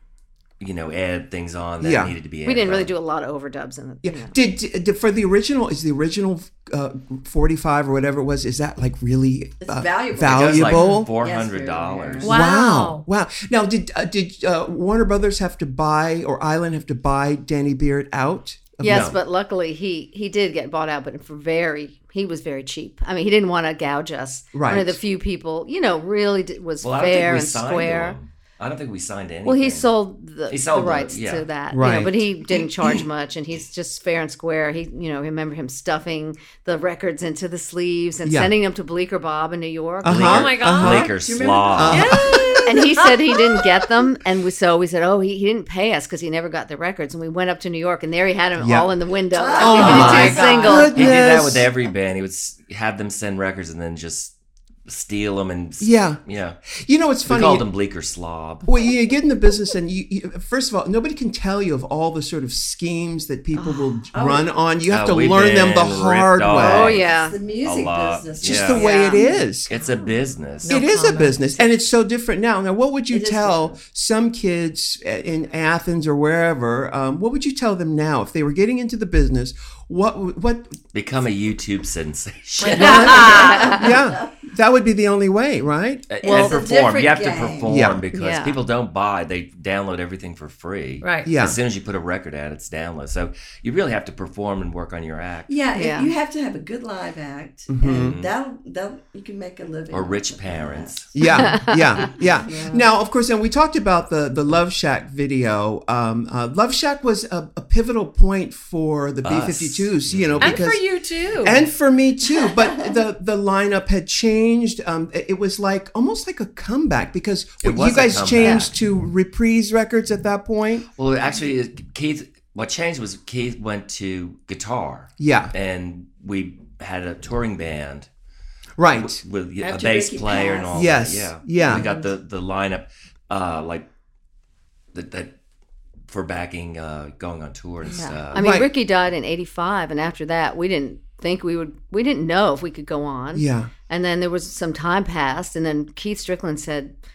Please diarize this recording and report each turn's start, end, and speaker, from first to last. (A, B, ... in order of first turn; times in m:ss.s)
0:00.6-0:02.9 A
0:01.8-0:02.2 B
0:02.4-0:04.3 C
0:04.0-0:11.1 B
0:09.6-0:12.4 D
0:10.2-0:12.3 A
0:12.2-0:13.0 E
0:12.2-0:19.2 B
0:18.8-0:28.2 C
0:18.8-0:19.2 A
0:24.5-0:25.0 B
0:26.8-0:29.9 A
0:29.4-0:40.5 C
0:30.5-0:31.5 A
0:31.7-0:32.2 B
0:38.2-0:38.5 B
0:40.0-0:41.1 B
0:40.1-0:42.2 A
0:40.3-0:41.1 E
0:40.8-0:43.7 D
0:41.8-0:42.4 B
0:41.9-0:42.7 E
0:42.6-0:51.0 C
0:48.6-0:48.9 B
0:49.3-0:51.2 D
0:49.6-0:51.7 B
0:49.9-0:50.2 A
0:50.9-0:54.3 A
0:54.9-0:56.6 A
0:55.8-0:56.2 B
0:56.7-0:57.7 B
0:57.3-0:58.8 A
0:58.6-1:07.0 B
1:03.6-1:04.0 C
1:04.1-1:04.5 D
1:04.9-1:07.1 A
1:06.6-1:07.4 C
1:07.0-1:09.9 D
1:07.6-1:08.9 A
1:08.5-1:09.7 B
1:09.7-1:10.8 A
1:10.6-1:11.7 E
1:10.7-1:20.8 B
1:13.1-1:13.8 D
1:20.9-1:23.6 A
1:22.6-1:23.8 E
1:22.8-1:26.1 B
1:23.0-1:24.3 D
1:23.4-1:23.8 C
1:26.1-1:35.5 A
1:26.2-1:27.8 D
1:26.2-1:26.6 C
1:27.7-1:28.0 B
1:28.1-1:28.6 C
1:31.0-1:31.3 E
1:31.2-1:31.6 B
1:35.5-1:41.1 D
1:35.8-1:36.1 C
1:37.7-1:38.2 B
1:37.9-1:38.3 A
1:39.9-1:41.1 A
1:41.2-1:50.8 B
1:41.3-1:42.1 C
1:42.0-1:42.9 D
1:49.2-1:50.6 A
1:50.4-1:51.7 E
1:51.4-2:00.9 B
1:57.6-1:58.7 A
2:01.0-2:08.1 A
2:05.2-2:05.5 B
2:08.8-2:09.2 B
2:09.0-2:13.9 A
2:09.6-2:11.0 D
2:10.7-2:11.9 B
2:14.9-2:15.3 A
2:16.1-2:18.4 A
2:17.9-2:26.9 C
2:18.4-2:18.7 B
2:23.3-2:23.7 B